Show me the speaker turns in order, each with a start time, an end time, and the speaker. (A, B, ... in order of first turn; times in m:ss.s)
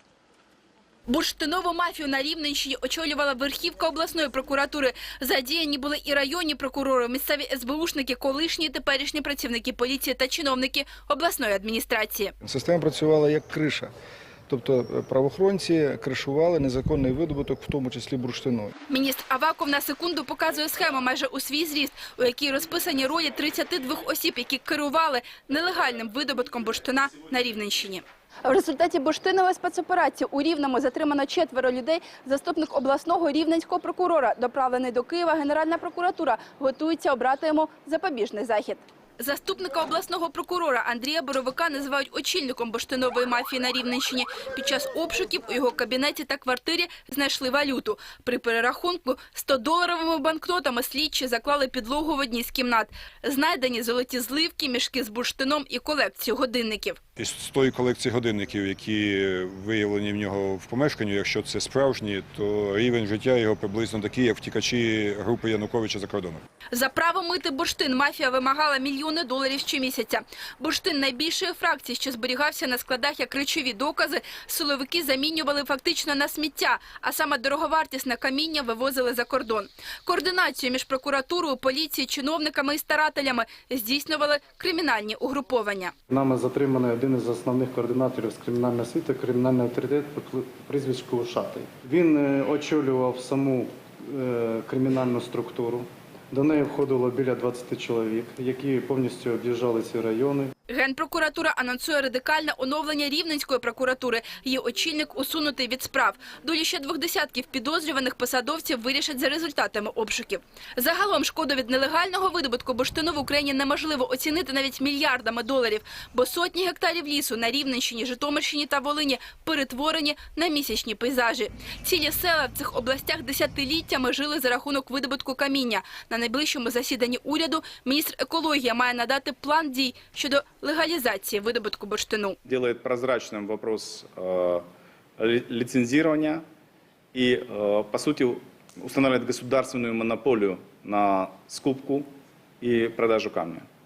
0:01.1-0:12.3 A
0:12.4-0:13.9 B
0:14.5-0:18.7 B
0:18.9-0:57.0 A
0:57.2-1:06.4 C
1:06.7-1:25.9 A
1:26.1-1:40.5 D
1:40.7-2:12.4 A
2:12.5-2:14.6 E
2:15.2-2:16.4 E
2:17.1-2:22.1 E
2:22.6-2:23.7 E